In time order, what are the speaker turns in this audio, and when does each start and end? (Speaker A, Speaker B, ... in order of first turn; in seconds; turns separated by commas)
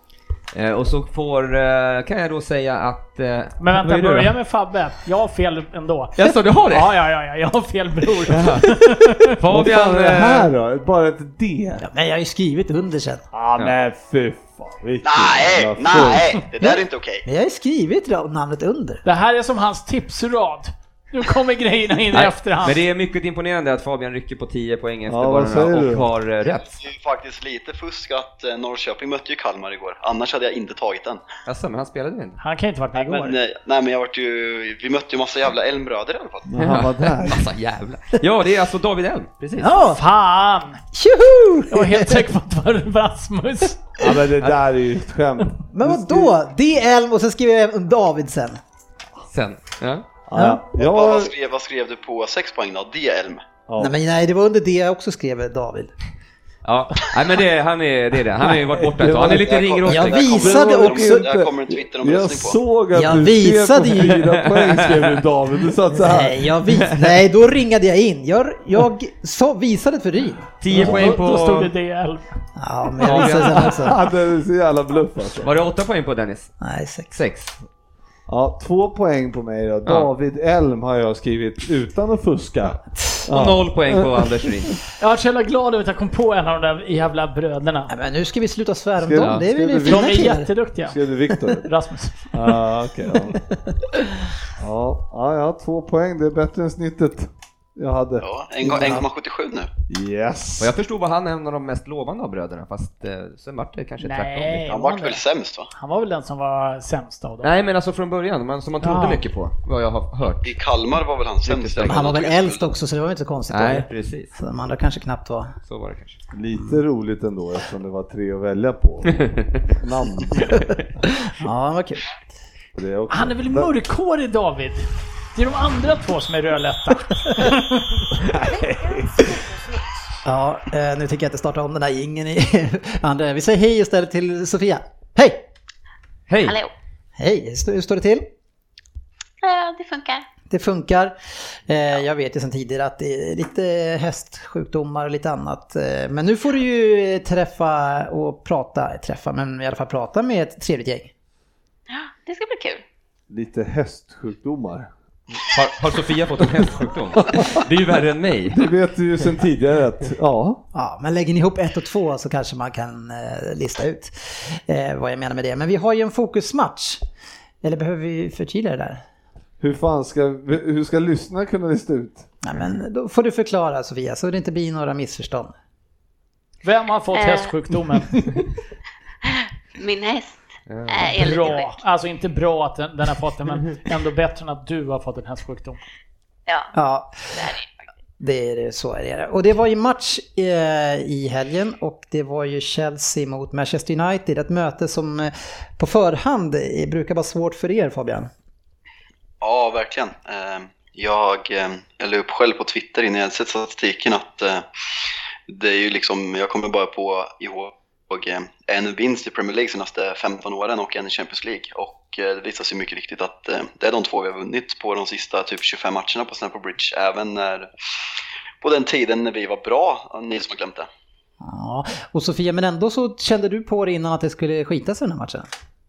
Speaker A: 0.5-4.3, Speaker B: 3.6-6.2, Speaker A: 6.2-6.9, Speaker B: 6.7-9.3, Speaker A: 8.3-10.5, Speaker C: 9.5-11.8, Speaker D: 11.8-13.2, Speaker C: 13.3-16.4, Speaker E: 15.0-17.2, Speaker D: 16.6-19.0, Speaker B: 19.0-22.8, Speaker A: 22.1-26.8, Speaker C: 25.1-26.1, Speaker E: 26.8-31.2, Speaker A: 31.5-32.4, Speaker B: 32.4-33.4, Speaker E: 33.2-36.5, Speaker C: 36.5-37.5, Speaker A: 36.6-39.7, Speaker D: 39.6-40.0, Speaker B: 39.7-40.8, Speaker D: 40.9-42.2, Speaker B: 41.7-43.8, Speaker C: 44.0-46.4, Speaker D: 45.7-48.6, Speaker A: 49.3-50.1, Speaker C: 50.3-51.3, Speaker D: 50.4-50.7, Speaker E: 50.8-53.5, Speaker C: 53.7-54.0, Speaker D: 53.8-55.9, Speaker A: 56.6-60.4, Speaker C: 58.5-59.6, Speaker E: 59.4-62.6, Speaker D: 59.9-61.3, Speaker C: 60.2-66.5, Speaker D: 62.9-64.2, Speaker A: 64.2-65.2, Speaker D: 66.0-70.5, Speaker A: 70.6-71.7, Speaker B: 70.7-72.3, Speaker C: 70.7-71.0, Speaker D: 72.6-74.0, Speaker A: 73.0-73.8, Speaker C: 73.1-75.5, Speaker A: 75.4-76.5, Speaker D: 76.6-77.2, Speaker A: 77.1-77.5, Speaker C: 78.3-84.3, Speaker A: 83.3-84.8, Speaker B: 85.0-87.9, Speaker D: 87.9-90.5, Speaker C: 89.0-90.3, Speaker B: 89.8-92.3, Speaker C: 90.9-91.7, Speaker C: 92.3-93.4, Speaker C: 94.6-98.3, Speaker E: 98.2-99.7, Speaker D: 98.6-99.1, Speaker C: 99.9-100.7, Speaker A: 100.6-104.7, Speaker B: 104.0-105.2, Speaker E: 104.7-105.7, Speaker B: 105.7-107.5, Speaker A: 107.4-110.6, Speaker B: 108.8-109.2, Speaker E: 110.4-112.7, Speaker A: 111.5-112.1, Speaker D: 111.9-115.6, Speaker A: 113.5-114.3, Speaker A: 115.7-116.2, Speaker C: 116.3-120.6, Speaker D: 121.4-122.2, Speaker C: 122.8-123.7, Speaker B: 123.1-128.1, Speaker C: 128.2-129.4, Speaker D: 130.2-135.4, Speaker A: 136.3-136.6, Speaker F: 136.4-136.7, Speaker D: 137.2-138.3, Speaker F: 139.4-140.3, Speaker D: 140.5-151.1, Speaker F: 151.9-152.8, Speaker C: 153.3-154.9, Speaker A: 155.5-158.6, Speaker C: 157.2-157.7, Speaker C: 158.5-160.6, Speaker D: 160.7-167.0, Speaker D: 167.6-169.0, Speaker C: 169.6-172.3, Speaker D: 172.4-175.5, Speaker B: 176.6-178.3, Speaker F: 177.1-177.5, Speaker F: 179.2-181.8, Speaker A: 180.7-181.2, Speaker B: 181.2-185.8, Speaker F: 186.5-186.7, Speaker D: 186.7-187.5, Speaker F: 187.3-187.9, Speaker D: 188.2-198.3, Speaker E: 199.4-204.7, Speaker E: 205.5-217.7, Speaker E: 218.6-220.9, Speaker D: 221.4-225.5